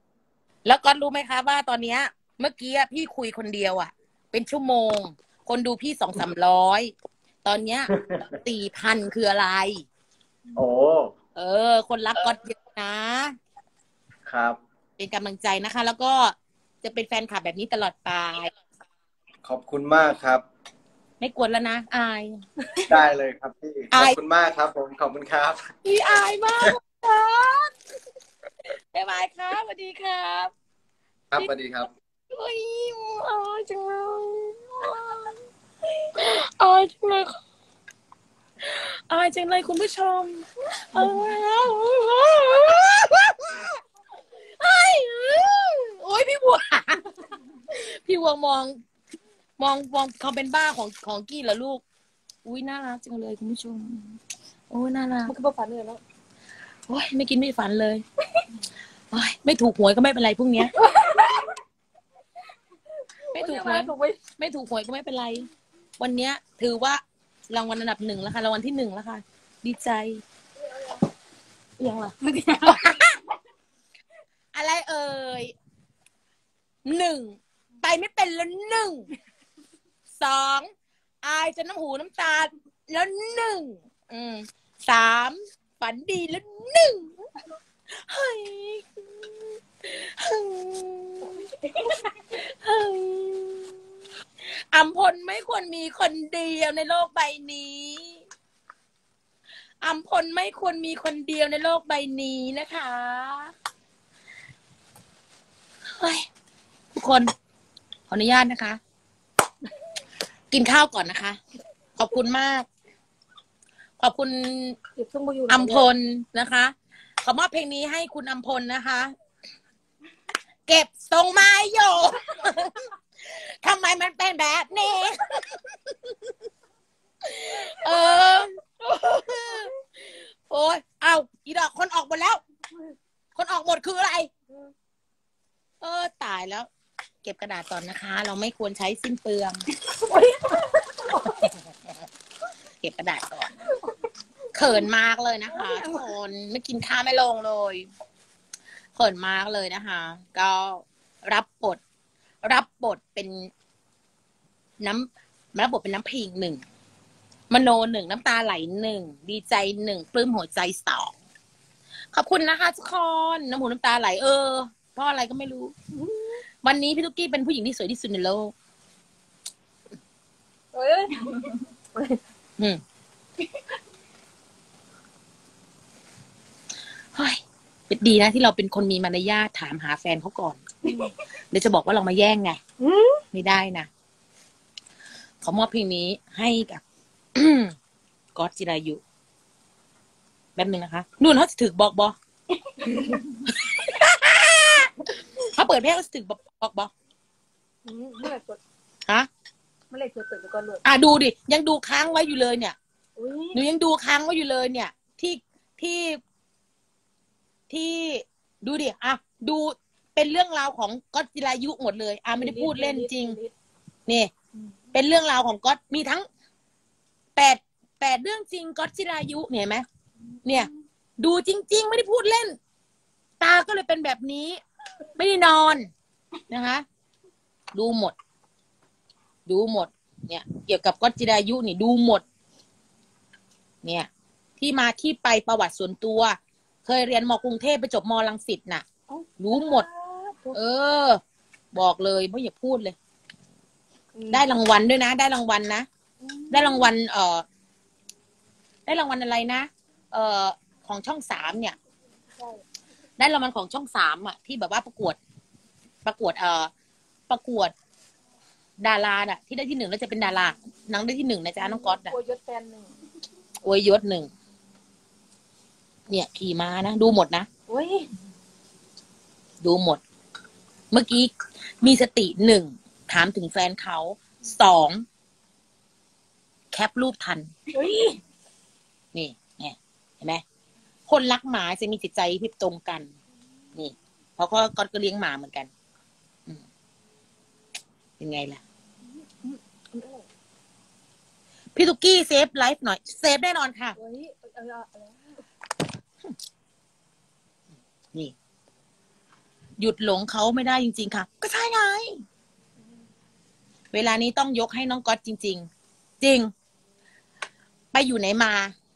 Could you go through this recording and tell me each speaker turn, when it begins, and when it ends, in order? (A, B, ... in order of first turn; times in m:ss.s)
0:00.6-0:06.9 A
0:07.4-0:09.8 A
0:10.6-0:11.1 B
0:11.4-0:13.3 A
0:14.2-0:14.6 B
0:15.0-0:18.5 A
0:19.4-0:20.4 B
0:21.2-0:22.4 A
0:22.9-0:25.6 B
0:23.9-0:24.2 A
0:25.8-0:27.7 A
0:28.9-0:30.5 A
0:31.3-0:31.9 B
0:32.3-0:35.3 A
0:36.1-0:37.4 A
0:38.6-0:43.8 A
0:40.9-0:41.3 C
0:44.6-0:47.0 A
0:47.7-0:48.8 A
0:49.6-0:51.8 A
0:52.4-0:54.2 A
0:54.7-0:55.3 A
0:55.3-0:56.0 C
0:56.9-0:58.0 A
0:59.1-1:00.7 A
1:00.8-1:01.6 C
1:03.2-1:04.2 C
1:03.3-1:05.5 A
1:06.0-1:07.0 A
1:07.5-1:10.2 A
1:10.7-1:11.0 C
1:11.8-1:12.1 A
1:11.8-1:12.8 C
1:12.6-1:13.2 A
1:14.5-1:15.5 A
1:16.8-1:19.1 A
1:20.2-1:20.7 A
1:21.2-1:27.1 A
1:27.9-1:29.0 A
1:29.8-1:33.7 A
1:34.5-1:38.2 A
1:39.8-1:43.5 A
1:46.0-1:46.2 A
1:46.9-1:47.3 A
1:48.1-1:48.8 A
1:50.5-1:51.4 A
1:52.0-1:52.7 A
1:54.0-1:54.8 A
1:55.0-1:55.9 C
1:55.5-1:59.1 A
2:00.7-2:05.9 A
2:07.2-2:12.4 A
2:13.3-2:14.3 A
2:15.8-2:16.7 A
2:17.2-2:19.6 A
2:19.9-2:21.4 C
2:21.2-2:21.5 A
2:22.8-2:23.5 A
2:24.5-2:27.9 A
2:25.5-2:26.0 C
2:28.9-2:31.8 A
2:32.4-2:33.5 A
2:34.8-2:36.6 A
2:37.5-2:41.1 A
2:42.1-2:45.7 A
2:46.0-2:46.4 C
2:46.6-2:48.5 A
2:50.7-2:52.2 C
2:57.1-3:00.6 A
3:00.9-3:01.1 C
3:01.5-3:02.6 A
3:02.8-3:03.2 C
3:03.3-3:03.9 A
3:05.4-3:06.8 A
3:07.3-3:07.7 A
3:08.3-3:09.0 A
3:10.6-3:12.2 A
3:12.8-3:13.2 C
3:13.4-3:16.9 A
3:17.8-3:18.6 C
3:19.9-3:20.8 C
3:20.8-3:22.8 A
3:23.2-3:23.6 C
3:23.5-3:26.2 A
3:27.7-3:33.4 A
3:32.3-3:33.5 C
3:34.0-3:34.3 A
3:34.9-3:36.2 A
3:37.4-3:39.8 A
3:40.4-3:42.6 A
3:40.5-3:40.7 C
3:43.4-3:44.6 A
3:45.2-3:45.9 A
3:46.5-3:46.8 A
3:47.7-3:48.1 A
3:49.4-3:52.2 A
3:53.8-3:58.8 A
3:59.1-4:00.6 C
3:59.4-3:59.8 A
4:00.5-4:01.2 A
4:01.7-4:02.9 A
4:04.1-4:04.4 C
4:04.3-4:05.9 A
4:06.2-4:06.9 C
4:06.5-4:07.4 A
4:08.8-4:11.8 A
4:13.2-4:15.2 A
4:16.0-4:16.7 A
4:17.3-4:17.7 A
4:18.8-4:22.1 A
4:21.6-4:22.9 C
4:23.6-4:24.3 A
4:26.1-4:27.5 A
4:27.7-4:28.1 C
4:29.6-4:30.0 A
4:30.9-4:35.0 A
4:36.7-4:37.5 A
4:37.7-4:38.2 C
4:39.1-4:40.4 A
4:41.1-4:43.1 A
4:43.7-4:45.7 A
4:48.2-4:48.6 A
4:49.3-4:50.2 C
4:51.8-4:54.0 A
4:53.9-4:55.4 C
4:59.8-5:02.1 A
5:03.9-5:05.7 A
5:06.2-5:06.5 A
5:07.9-5:08.7 A